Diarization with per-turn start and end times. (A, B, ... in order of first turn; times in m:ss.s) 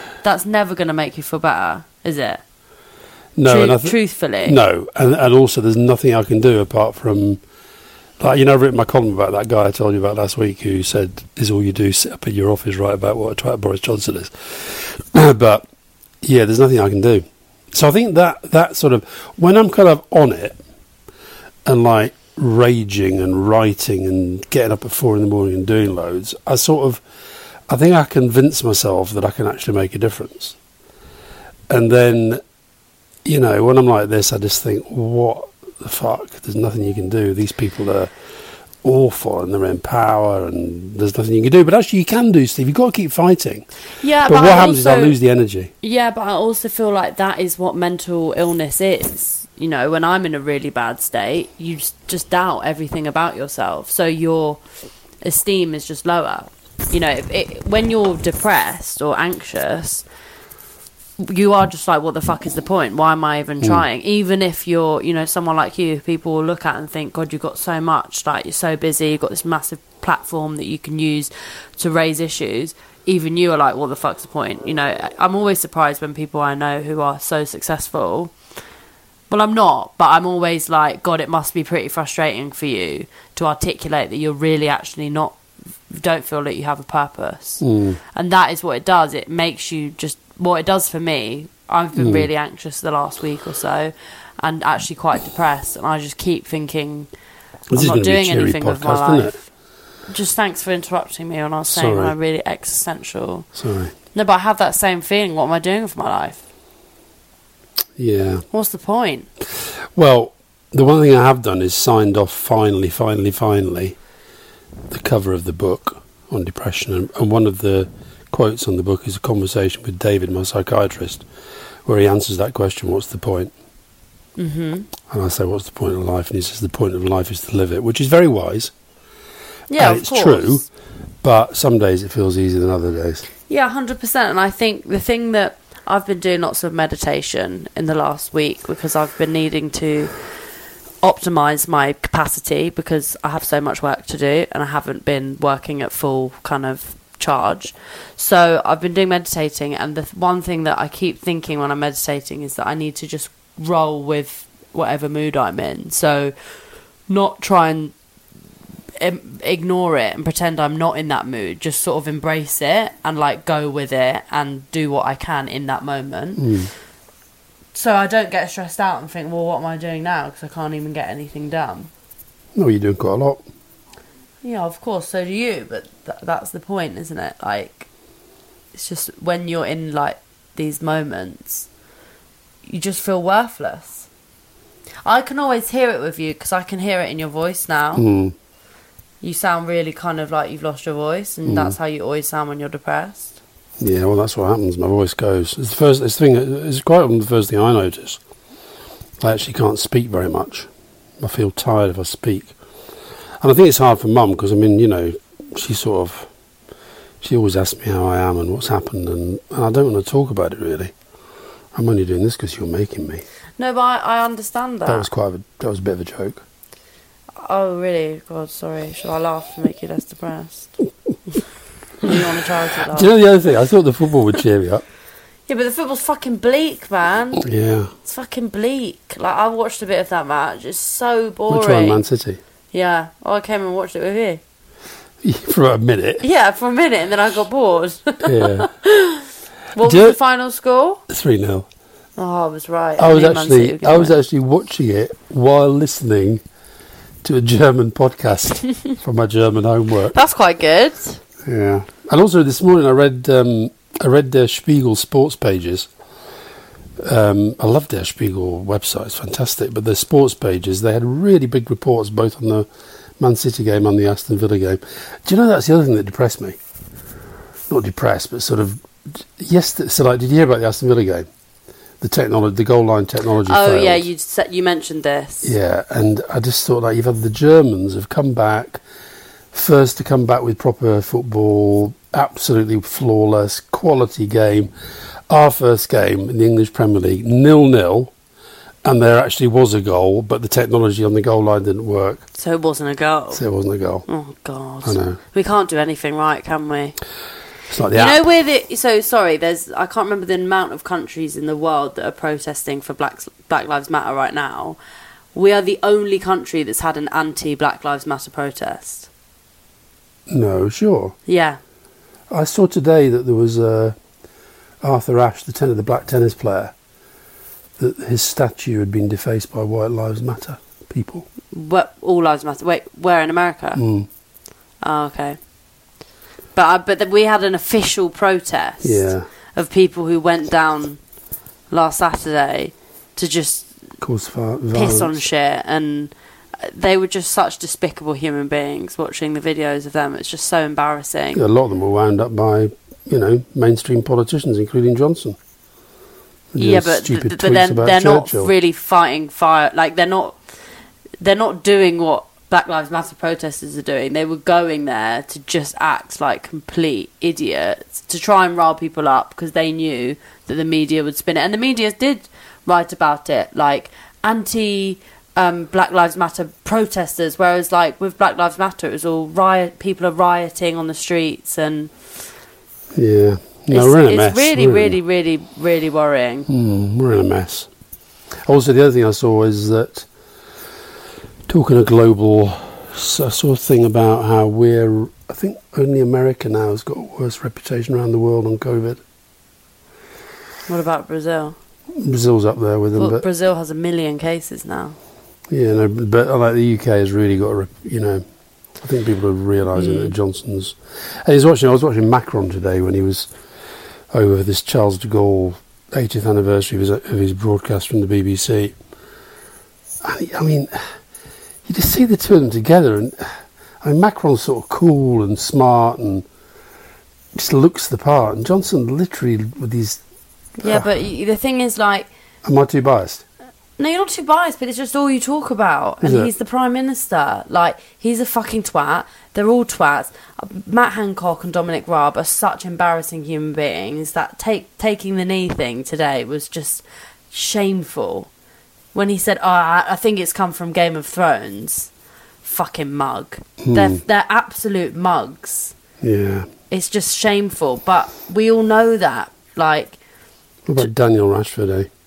0:00.2-0:02.4 A
0:03.4-0:07.4 B
0:03.4-0:04.6 A
0:08.2-0:15.6 B
0:16.2-0:20.6 B
0:21.6-0:27.0 B
0:27.7-0:30.6 B
0:31.7-0:32.4 B
0:33.2-0:38.1 B
0:38.8-0:43.7 B
0:44.0-0:45.2 A
0:44.2-0:45.7 B
0:45.8-0:54.6 A
0:55.2-1:00.0 A
1:01.2-1:18.3 A
1:19.3-1:37.1 A
1:27.6-1:28.0 B
1:32.0-1:32.3 B
1:37.7-1:39.4 B
1:37.7-1:39.4 A
1:40.1-1:43.5 A
1:41.7-1:42.1 B
1:43.5-1:43.9 B
1:44.1-1:46.4 A
1:48.0-1:48.4 B
1:48.5-1:49.3 A
1:49.6-1:54.0 B
1:54.9-2:01.2 B
2:01.8-2:03.5 B
2:04.4-2:04.9 A
2:05.1-2:08.7 B
2:09.7-2:10.6 A
2:09.8-2:10.6 B
2:11.2-2:13.2 B
2:13.5-2:20.1 A
2:21.0-2:36.3 A
2:37.1-2:37.9 A
2:39.0-2:46.5 A
2:46.4-2:46.7 B
2:47.7-2:51.9 A
2:52.5-2:53.4 B
2:54.4-2:57.9 A
2:58.7-3:01.7 A
3:02.6-3:04.1 A
3:05.0-3:08.0 A
3:07.9-3:08.3 B
3:09.2-3:13.4 A
3:11.4-3:11.7 B
3:13.8-3:18.2 B
3:19.2-3:20.7 B
3:21.2-3:22.5 B
3:23.4-3:26.3 B
3:27.2-3:30.9 B
3:31.7-3:33.2 B
3:33.6-3:35.1 A
3:34.8-3:36.4 B
3:37.4-3:40.7 A
3:42.0-3:43.1 A
3:42.9-3:44.8 B
3:45.5-3:47.4 A
3:47.4-3:47.9 B
3:48.0-3:52.0 A
3:51.5-3:52.4 B
3:52.7-3:54.4 A
3:55.2-3:56.2 B
3:56.2-4:01.0 A
3:58.2-3:58.7 B
3:59.8-4:00.2 B
4:01.1-4:01.7 B
4:02.2-4:04.2 A
4:03.0-4:06.4 B
4:07.2-4:10.2 B
4:10.1-4:11.2 A
4:11.4-4:15.9 B
4:17.0-4:22.7 B
4:23.2-4:26.6 B
4:27.7-4:31.3 B
4:32.0-4:34.1 B
4:33.4-4:35.5 A
4:35.4-4:38.8 B
4:39.5-4:44.7 B
4:45.3-4:48.1 B
4:48.8-4:52.2 B
4:52.4-4:53.4 A
4:53.3-4:54.0 B
4:54.1-4:57.0 A
4:54.8-4:55.2 B
4:57.7-4:58.2 B
4:57.9-5:04.8 A
5:05.3-5:09.1 A
5:10.3-5:11.2 B
5:11.3-5:11.6 A
5:12.3-5:14.0 B
5:14.8-5:16.7 B
5:17.8-5:21.3 B
5:21.5-5:23.8 A
5:23.8-5:24.1 B
5:24.8-5:25.4 A
5:26.5-5:31.0 A
5:28.8-5:29.3 B
5:31.7-5:33.7 A
5:34.0-5:35.2 B
5:34.7-5:41.4 A
5:41.3-5:45.4 B
5:46.5-5:48.5 B
5:46.6-5:50.4 A
5:51.2-6:11.9 A
6:12.9-6:15.0 B
6:13.7-6:16.5 A
6:16.5-6:17.7 B
6:18.4-6:20.1 B
6:21.5-6:29.0 B
6:30.7-6:31.6 A
6:31.9-6:33.2 B
6:33.0-6:35.0 A
6:35.5-6:38.2 B
6:38.8-6:43.3 B
6:39.7-6:40.1 A
6:44.1-6:48.7 B
6:50.0-6:50.9 B
6:51.6-6:56.2 B
6:57.3-7:00.0 B
7:00.6-7:02.1 A
7:00.6-7:00.9 B
7:02.4-7:03.2 B
7:03.8-7:18.3 A
7:06.0-7:06.3 B
7:18.9-7:21.9 A
7:22.4-7:25.7 A
7:23.6-7:24.0 B
7:26.0-7:26.5 B
7:26.7-7:30.0 A
7:30.6-7:31.9 B